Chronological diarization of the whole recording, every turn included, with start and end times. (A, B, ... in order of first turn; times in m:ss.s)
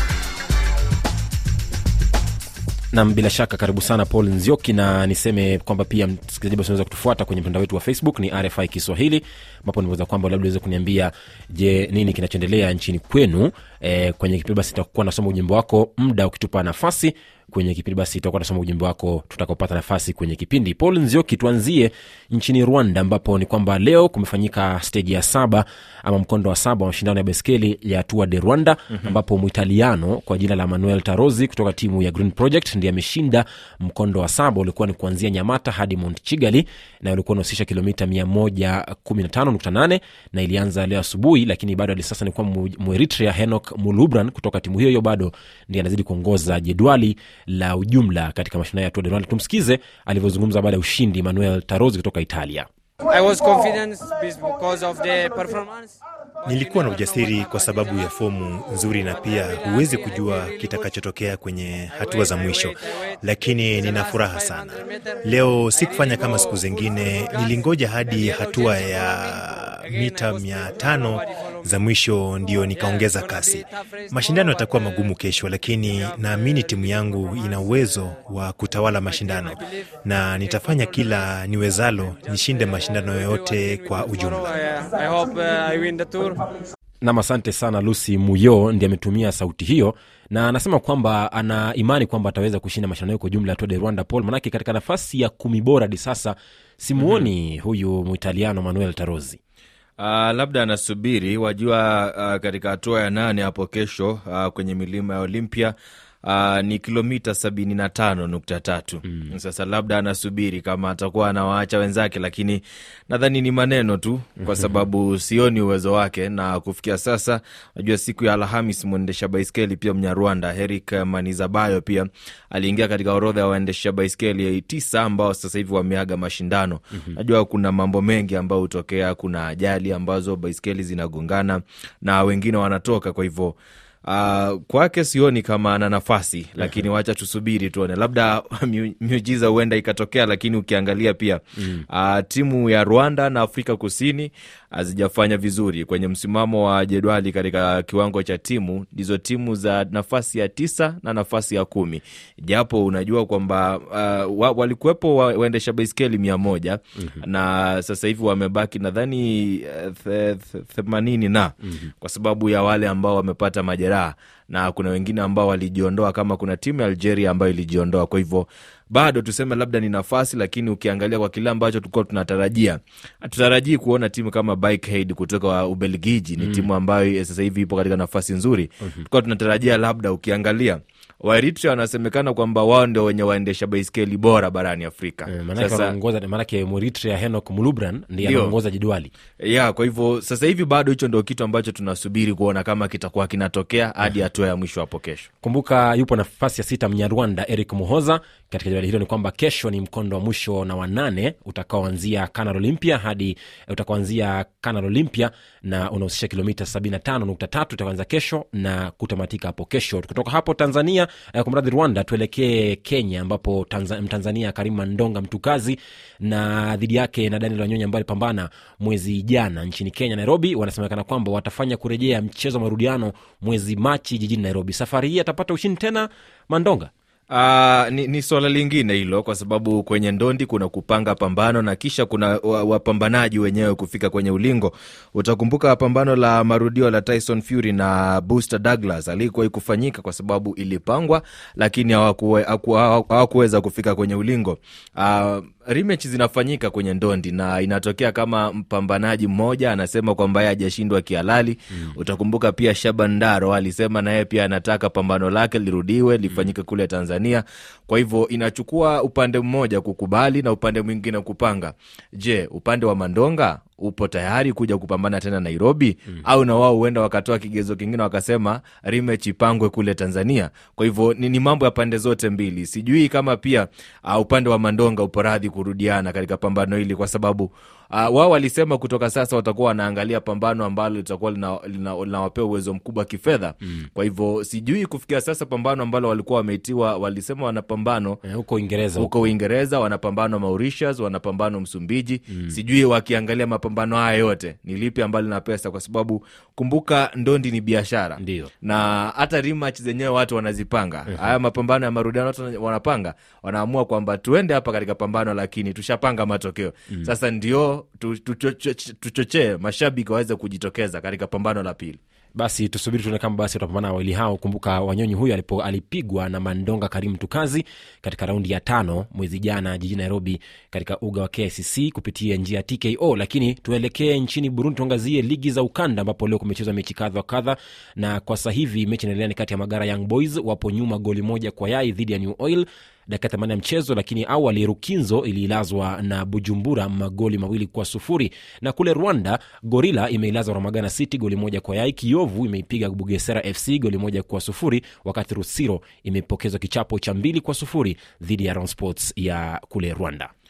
0:02.9-0:52.7 A
0:53.1-0:56.0 B
0:56.5-1:24.5 C
0:56.5-0:58.1 B
0:59.2-1:00.9 B
1:02.0-1:02.8 B
1:03.8-1:05.2 B
1:05.9-1:06.8 B
1:08.2-1:09.4 B
1:09.9-1:11.0 B
1:12.8-1:14.7 B
1:16.1-1:18.0 B
1:19.1-1:19.6 B
1:20.5-1:20.9 B
1:22.4-1:26.5 B
1:27.0-1:39.4 A
1:37.0-1:37.3 D
1:40.0-3:05.9 D
1:54.5-1:54.8 A
2:56.4-2:56.7 A
3:05.3-3:09.1 A
3:08.2-3:08.6 D
3:09.4-3:15.3 D
3:15.4-3:46.9 A
3:47.3-4:48.2 D
4:48.2-4:49.1 A
4:49.0-5:12.0 D
4:58.2-4:58.5 A
5:12.4-5:50.3 A